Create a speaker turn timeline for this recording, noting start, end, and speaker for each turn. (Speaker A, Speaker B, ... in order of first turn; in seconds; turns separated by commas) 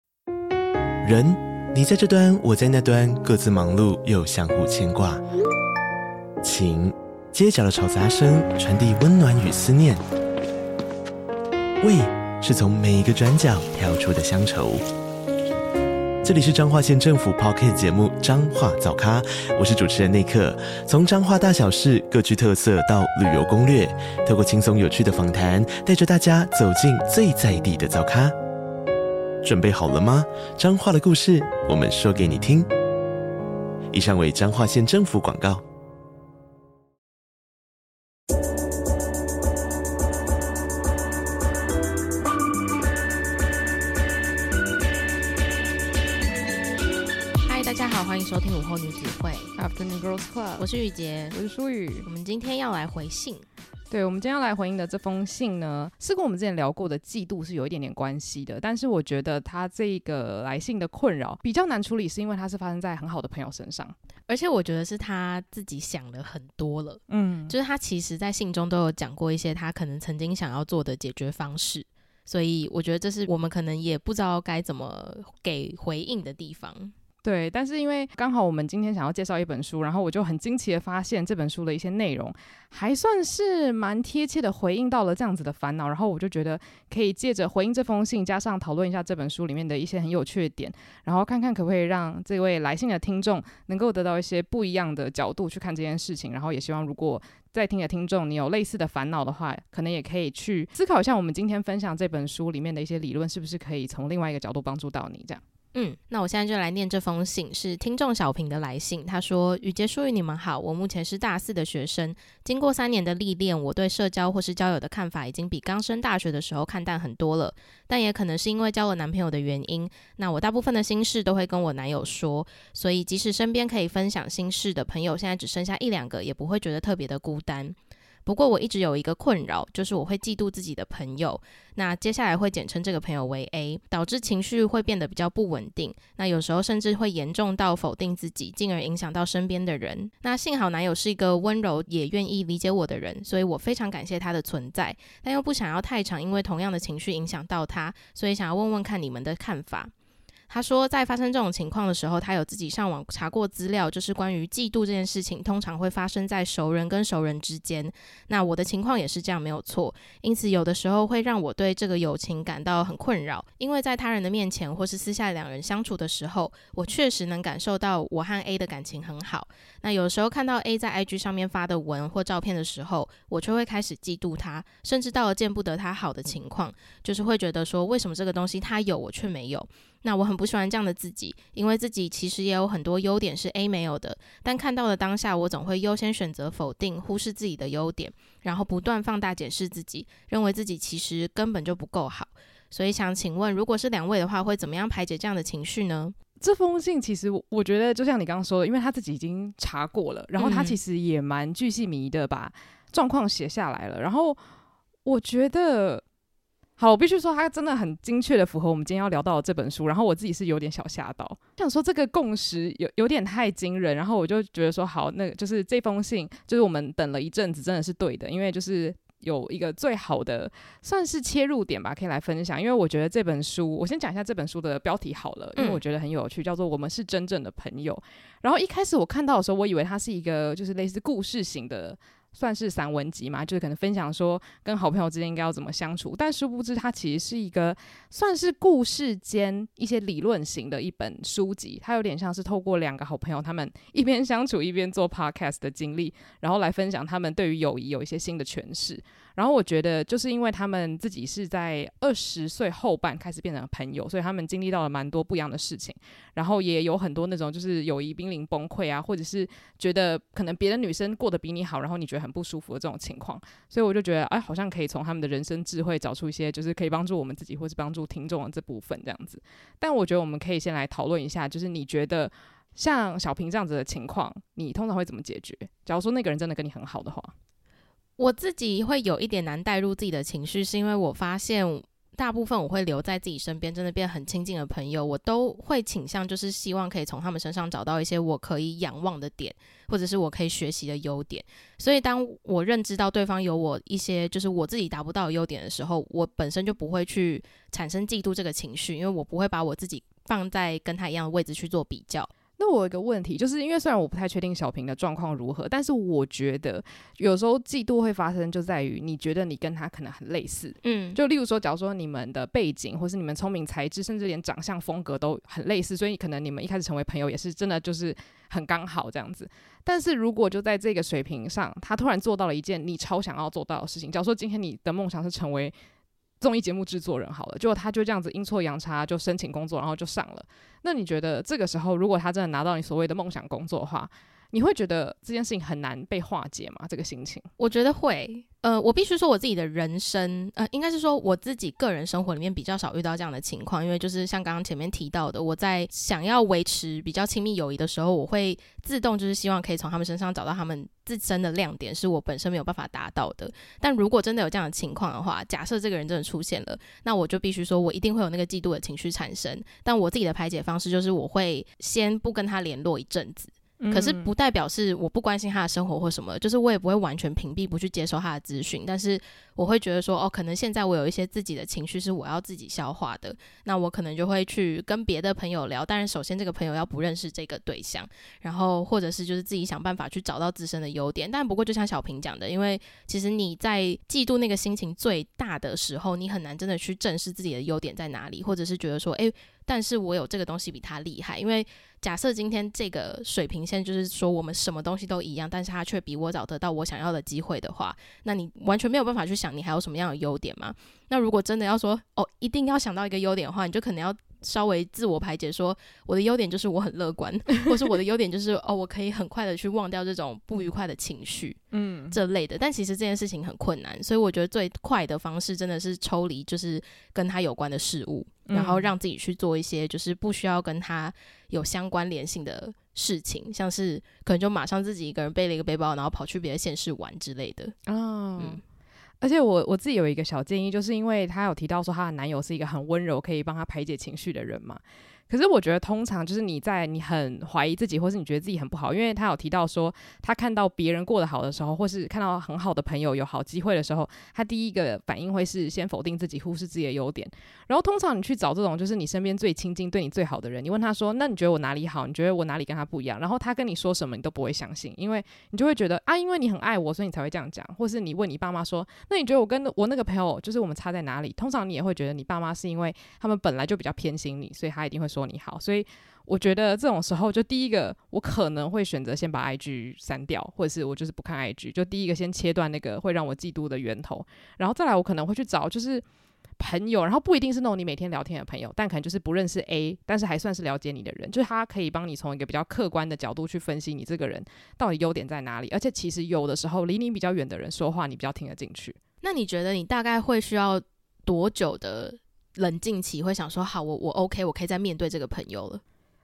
Speaker A: 1.0-5.2, Speaker A: 6.4-10.0, Speaker A: 11.8-14.8, Speaker A: 16.2-28.4, Speaker A: 29.4-32.7, Speaker A: 33.9-35.6, Speaker B: 47.4-49.5, Speaker C: 49.5-50.7, Speaker B: 50.6-51.4, Speaker C: 51.3-52.0, Speaker B: 52.0-53.5, Speaker C: 53.9-63.9, Speaker B: 64.3-76.9, Speaker C: 67.1-67.5, Speaker C: 77.2-105.4, Speaker B: 105.7-149.9, Speaker B: 150.5-196.2, Speaker C: 196.4-204.4, Speaker B: 200.4-200.8, Speaker C: 205.1-206.0, Speaker C: 206.8-277.3, Speaker B: 278.2-302.3, Speaker C: 302.6-325.8, Speaker B: 310.8-311.2, Speaker C: 326.4-337.5, Speaker B: 337.6-411.6, Speaker C: 363.8-364.3, Speaker C: 411.7-412.2, Speaker B: 412.1-427.8, Speaker C: 418.5-418.9, Speaker C: 427.9-428.6, Speaker C: 429.2-476.0, Speaker C: 476.6-489.0, Speaker B: 489.2-495.8